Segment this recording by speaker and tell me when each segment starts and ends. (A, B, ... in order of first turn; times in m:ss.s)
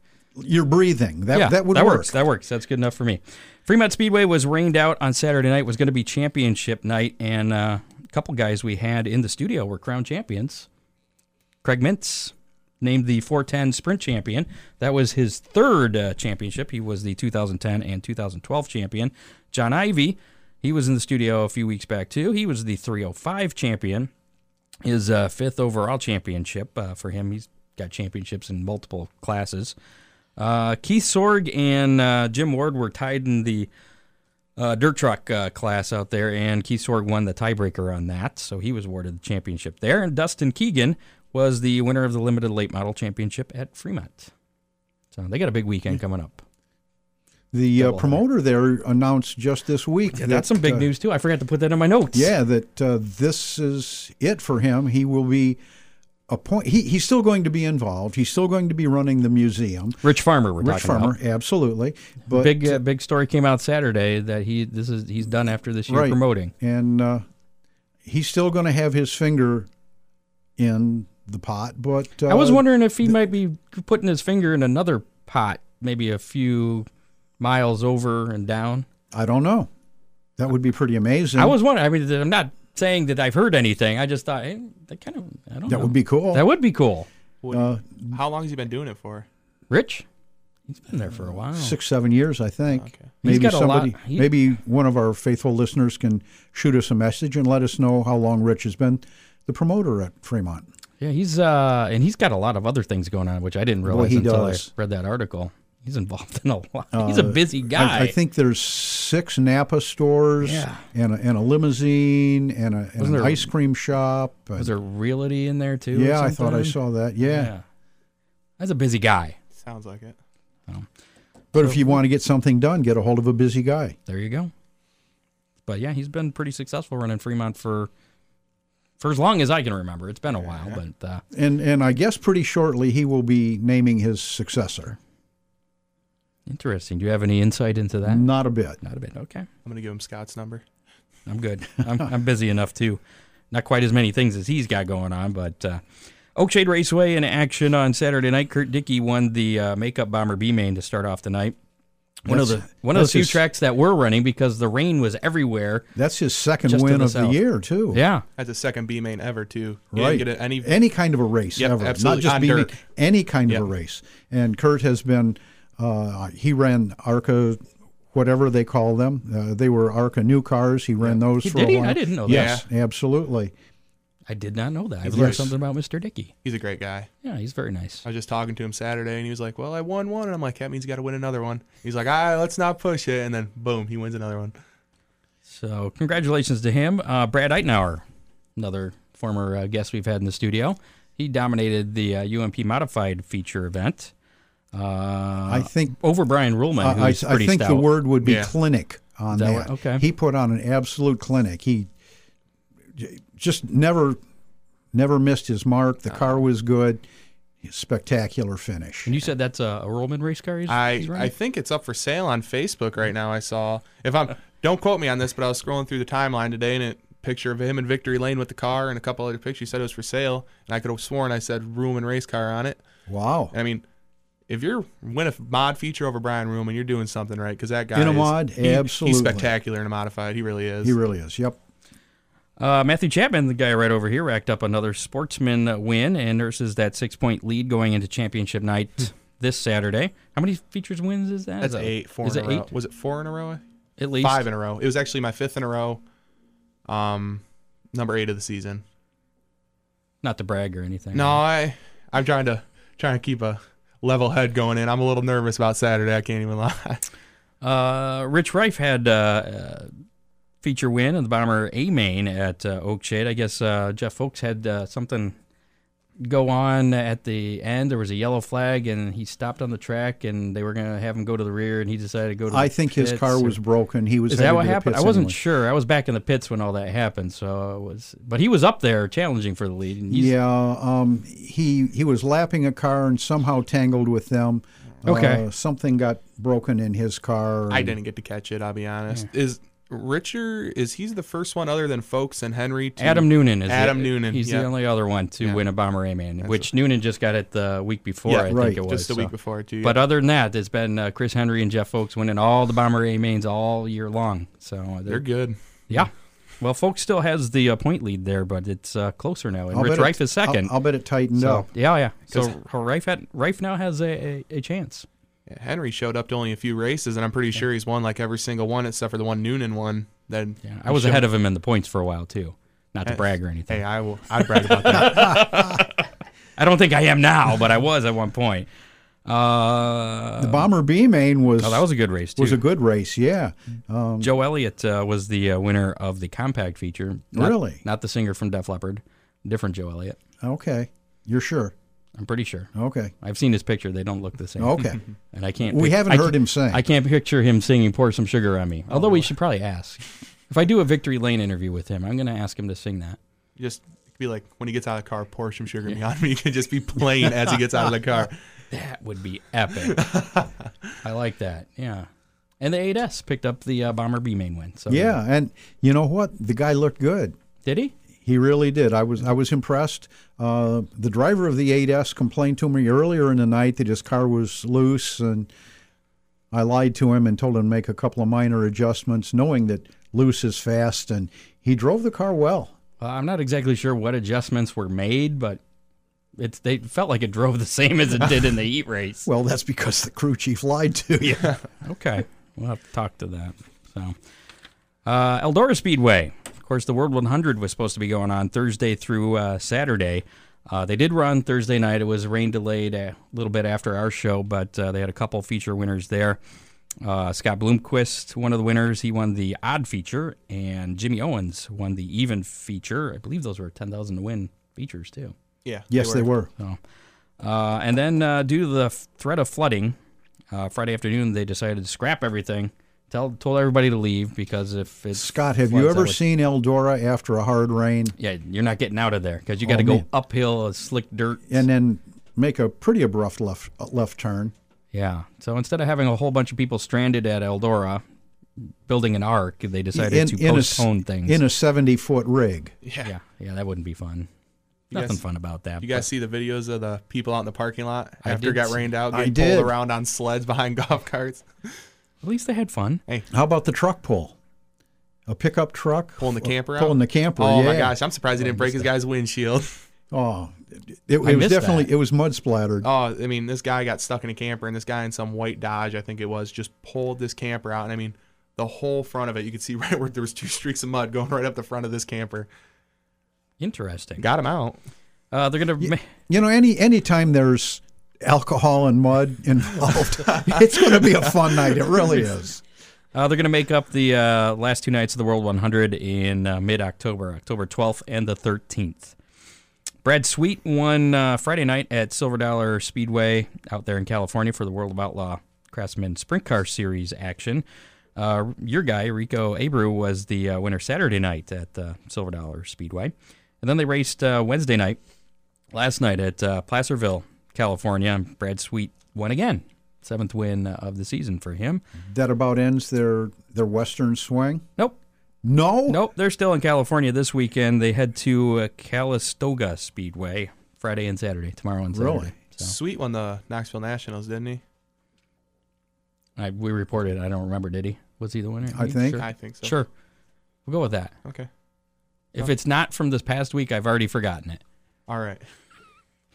0:00.4-0:02.2 A
0:01.3-0:10.7 B
0:11.6-0:24.1 B
0:24.8-0:29.8 B
0:30.4-0:33.7 B
0:34.6-0:44.3 B
0:45.1-0:46.4 B
0:47.5-0:50.9 A
0:47.8-0:48.2 B
0:50.1-0:52.3 B
0:52.1-0:55.6 A
0:56.3-1:00.0 A
1:00.0-1:01.2 B
1:00.6-1:02.8 A
1:02.3-1:06.5 B
1:05.9-1:07.2 A
1:08.0-1:09.7 A
1:10.6-1:13.1 A
1:12.3-1:16.9 B
1:17.4-1:18.9 B
1:19.1-1:19.7 A
1:20.4-1:21.6 A
1:21.4-1:27.1 B
1:25.7-1:26.5 A
1:27.4-1:29.3 C
1:27.5-1:28.2 A
1:29.7-1:30.1 B
1:30.7-1:31.8 B
1:31.1-1:40.7 A
1:32.7-1:33.1 C
1:33.2-1:34.3 B
1:41.0-1:48.2 B
1:43.8-1:44.7 A
1:46.9-1:54.7 A
1:50.4-1:50.8 B
1:53.0-1:53.5 B
1:54.6-1:57.6 B
1:55.9-1:57.5 A
1:58.6-1:59.4 B
1:59.6-2:00.2 C
2:01.5-2:04.0 A
2:04.1-2:04.5 B
2:05.7-2:07.9 B
2:09.0-2:11.2 B
2:10.4-2:10.8 C
2:11.3-2:15.0 A
2:16.5-2:18.2 B
2:18.0-2:18.8 A
2:18.8-2:19.5 B
2:19.6-2:20.6 C
2:21.3-2:23.0 B
2:23.5-2:25.8 B
2:26.4-2:31.6 B
2:32.2-2:35.9 B
2:32.3-2:33.4 A
2:36.0-2:38.0 A
2:36.7-2:37.4 B
2:37.9-2:38.2 B
2:38.4-2:40.8 C
2:39.9-2:47.6 A
2:41.6-2:42.8 C
2:48.1-2:53.5 A
2:51.4-2:52.6 B
2:52.3-2:52.6 C
2:54.3-2:56.3 B
2:55.1-2:55.4 C
2:55.1-2:55.5 A
2:56.4-2:57.1 C
2:57.2-2:58.0 B
2:58.0-3:04.6 C
3:05.5-3:08.0 B
3:08.6-3:14.1 B
3:14.7-3:17.9 B
3:15.5-3:16.0 A
3:16.8-3:21.9 A
3:18.2-3:18.5 C
3:19.3-3:20.0 B
3:23.0-3:24.2 A
3:24.9-3:27.0 A
3:27.6-3:29.2 A
3:29.1-3:31.3 B
3:30.7-3:42.8 C
3:43.1-3:43.5 A
3:43.5-3:43.8 C
3:44.5-3:51.0 C
3:47.9-3:49.5 A
3:50.8-3:51.6 A
3:52.6-4:02.7 B
4:01.6-4:03.6 C
4:04.0-4:04.4 B
4:04.2-4:06.0 C
4:06.9-4:07.4 C
4:07.9-4:08.8 C
4:10.2-4:11.4 B
4:11.1-4:17.0 C
4:17.6-4:19.9 B
4:20.6-4:25.4 B
4:26.2-4:33.6 B
4:32.5-4:35.4 A
4:34.3-4:40.3 B
4:40.1-4:48.0 A
4:45.0-4:45.4 B
4:47.7-4:54.7 C
4:53.0-5:05.2 B
4:56.4-4:56.7 C
4:58.3-5:00.0 C
4:58.5-4:58.8 A
5:05.1-5:06.0 C
5:05.9-5:10.7 B
5:09.7-5:11.7 A
5:11.3-5:15.1 B
5:15.5-5:21.2 C
5:20.6-5:23.8 B
5:23.1-5:25.6 C
5:24.4-5:26.0 B
5:26.6-5:28.7 B
5:29.3-5:30.7 B
5:30.4-5:34.3 A
5:31.6-5:32.6 B
5:34.2-5:40.2 B
5:37.3-5:37.8 A
5:40.4-5:41.7 A
5:42.2-5:53.2 B
5:42.8-5:43.1 A
5:44.6-5:45.0 A
5:45.7-5:46.8 A
5:48.9-5:49.3 C
5:53.6-5:58.4 C
5:58.7-6:00.1 B
5:59.9-6:00.5 C
6:01.0-6:02.1 B
6:02.6-6:05.2 B
6:04.9-6:07.4 A
6:07.6-6:07.9 B
6:08.2-6:15.5 A
6:16.5-6:22.7 A
6:23.0-6:25.6 B
6:26.4-6:29.3 B
6:29.2-6:31.6 A
6:31.8-6:34.2 B
6:35.0-6:46.4 B
6:47.0-6:55.4 B
6:55.6-6:56.3 C
6:55.9-6:56.5 A
6:57.4-7:00.0 B
7:00.5-7:06.2 B
7:05.1-7:08.2 A
7:08.2-7:11.6 B
7:09.6-7:10.1 A
7:11.5-7:14.5 A
7:14.9-7:18.0 B
7:18.6-7:21.4 B
7:19.9-7:22.7 A
7:22.8-7:23.1 C
7:23.0-7:24.3 B
7:24.9-7:25.2 C
7:24.9-7:26.1 B
7:25.8-7:31.8 C
7:28.2-7:28.8 B
7:29.1-7:29.7 A
7:32.2-7:33.0 B
7:33.3-7:34.4 A
7:35.3-7:38.0 A
7:36.2-7:39.7 C
7:38.4-7:38.8 B
7:40.1-7:42.9 A
7:41.2-7:41.9 B
7:42.8-7:52.5 C
7:53.6-7:54.2 B
7:54.2-7:54.8 C
7:55.3-7:56.0 B
7:55.8-8:02.6 A
8:00.3-8:01.2 C
8:03.1-8:09.2 B
8:10.0-8:17.6 B
8:18.2-8:25.0 B
8:25.7-8:31.8 B
8:32.0-8:34.7 A
8:35.4-8:36.0 A
8:35.9-8:42.7 B
8:41.9-8:42.4 A
8:42.6-8:44.6 C
8:46.4-8:49.9 B
8:48.7-8:49.2 A
8:49.2-8:49.8 C
8:50.7-8:51.1 B
8:52.3-8:54.6 B
8:55.1-8:55.4 C